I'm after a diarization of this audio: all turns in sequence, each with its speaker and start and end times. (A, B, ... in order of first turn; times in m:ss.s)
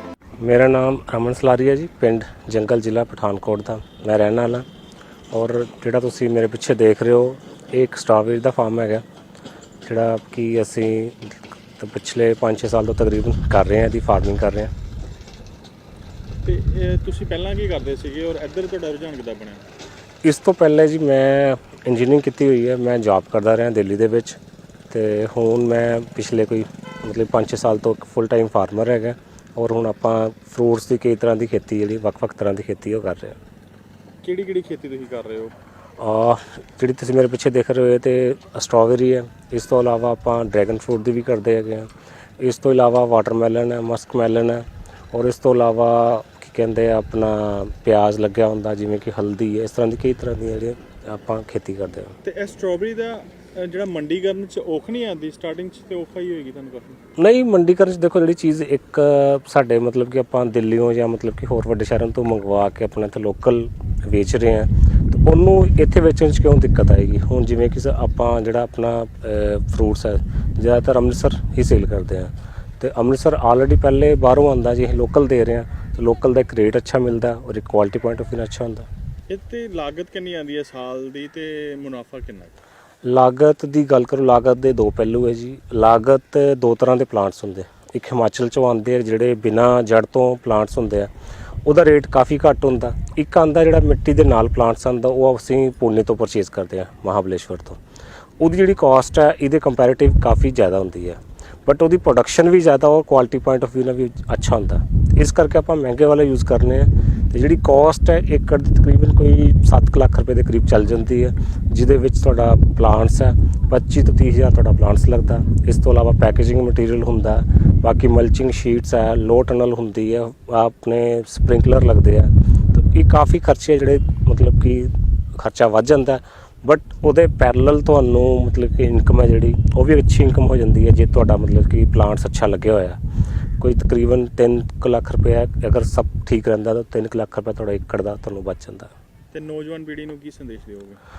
0:00.4-0:04.6 A
0:05.3-0:09.0 A
0:09.8-0:14.7 A
0:16.4-0:19.6 B
0:20.2-0:24.4 A
0:24.9-0:33.4 A
0:34.2-0:35.5 B
0:36.0-0:52.2 A
0:52.2-0:57.0 B
0:57.2-1:18.9 A
1:19.3-1:22.6 B
1:23.0-1:31.1 A
1:31.6-1:37.8 A
1:38.4-2:13.0 A
2:13.6-2:18.9 A
2:19.3-2:21.0 B